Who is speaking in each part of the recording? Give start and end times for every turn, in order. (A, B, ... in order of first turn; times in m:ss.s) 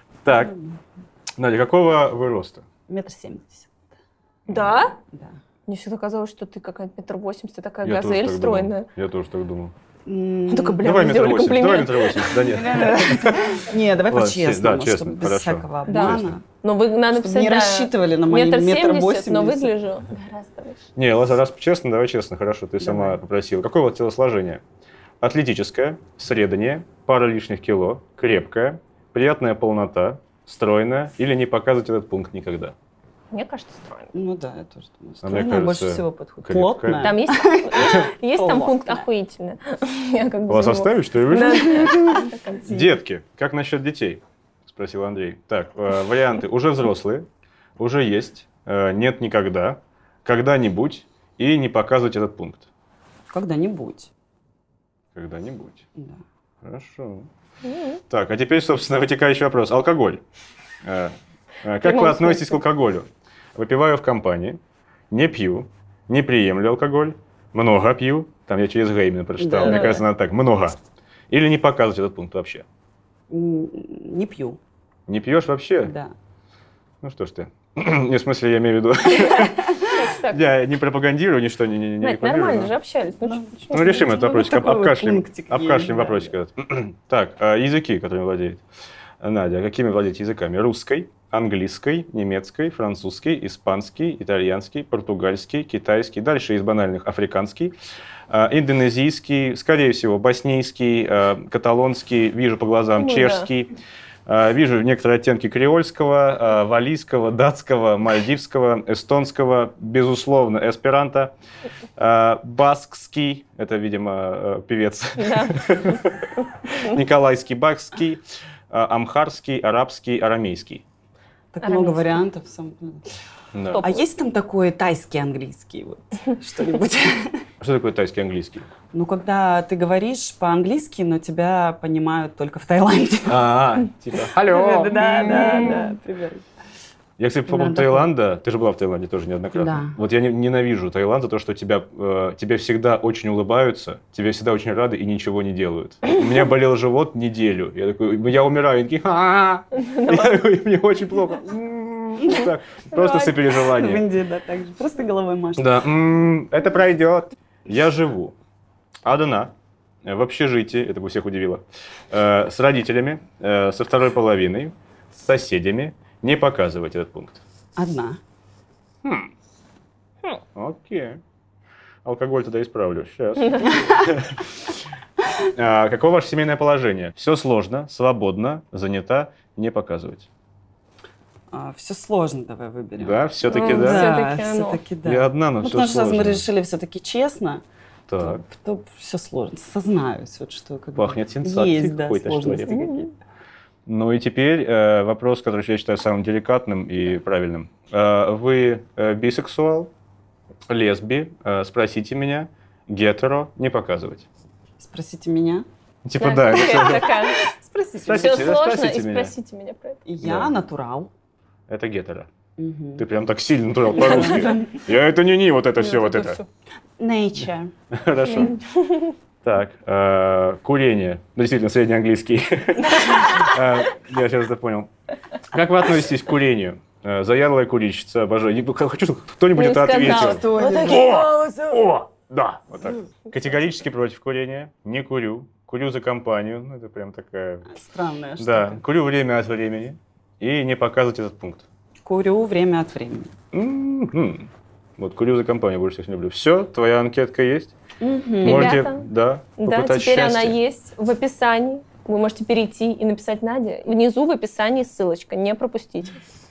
0:00.2-0:00.5 A
0:00.3-0:00.8 B
0:01.4-0:02.6 A
0:02.9-0:03.8 B
0:04.5-0:05.0 C
0:05.7-0:08.9 C
0:07.8-0:09.7 A
0:10.0-0:10.8 B
0:10.5-0:12.3 C
0:10.8-0:13.5 A
0:12.4-0:16.4 B
0:14.1-0:16.4 A
0:15.9-0:20.8 C
0:17.2-0:19.7 B
0:21.0-0:24.6 A
0:22.8-0:23.2 B
0:25.2-0:32.7 A
0:33.3-0:34.1 C
0:34.1-0:39.0 B
0:35.2-0:37.1 A
0:37.0-0:42.6 C
0:40.5-0:52.7 A
0:41.6-0:42.9 B
0:53.3-0:54.1 B
0:55.1-0:55.8 A
0:56.6-0:57.3 A
0:57.6-0:58.0 C
0:58.1-1:00.2 A
1:00.8-1:04.6 A
1:01.8-1:02.6 C
1:05.1-1:10.8 A
1:09.4-1:09.9 B
1:09.6-1:10.0 C
1:11.3-1:12.6 A
1:13.3-1:14.6 B
1:15.1-1:15.9 A
1:15.8-1:16.1 B
1:17.0-1:19.7 A
1:19.9-1:20.4 C
1:20.3-1:22.7 A
1:22.0-1:24.2 C
1:23.2-1:26.3 B
1:23.7-1:28.6 A
1:29.2-1:37.7 A
1:38.3-1:43.7 A
1:43.0-1:43.5 C
1:44.2-1:51.3 A
1:52.0-2:00.8 A
1:55.2-1:56.0 C
2:01.5-2:03.0 B
2:01.6-2:02.2 C
2:03.5-2:03.8 A
2:03.7-2:04.0 C
2:03.8-2:07.4 B
2:07.6-2:08.6 A
2:08.9-2:13.6 B
2:13.3-2:15.9 A
2:14.3-2:16.4 B
2:17.2-2:34.0 A
2:17.5-2:18.1 B
2:19.5-2:19.9 B
2:29.8-2:30.3 C
2:32.9-2:33.3 C
2:33.7-2:35.8 B
2:35.6-2:38.3 A
2:39.0-2:39.5 A
2:40.0-2:47.4 A
2:47.8-2:48.2 B
2:49.0-2:49.3 A
2:50.5-2:51.2 A
2:52.0-2:54.4 A
2:55.5-3:00.3 A
3:01.5-3:07.6 B
3:03.0-3:04.1 A
3:03.5-3:04.8 C
3:05.0-3:06.5 A
3:08.1-3:08.4 A
3:08.2-3:13.1 B
3:11.0-3:13.1 A
3:13.8-3:19.9 A
3:20.7-3:24.2 A
3:24.8-3:25.6 B
3:26.0-3:27.1 A
3:26.2-3:27.4 C
3:26.6-3:28.4 B
3:28.0-3:29.3 A
3:28.1-3:30.0 C
3:30.1-3:31.1 B
3:30.2-3:30.5 A
3:31.7-3:32.3 A
3:32.6-3:33.0 B
3:33.0-3:36.4 A
3:33.9-3:34.8 B
3:34.0-3:34.4 C
3:35.8-3:36.4 C
3:37.0-3:37.7 B
3:37.9-3:38.6 A
3:38.3-3:39.1 C
3:39.4-3:44.9 A
3:45.5-3:57.6 A
3:49.5-3:51.0 C
3:49.9-3:51.8 B
3:57.7-3:58.8 B
3:58.4-4:01.6 A
4:02.0-4:03.3 B
4:03.5-4:07.7 A
4:08.0-4:08.8 B
4:08.4-4:10.6 A
4:08.4-4:09.1 C
4:09.6-4:16.2 C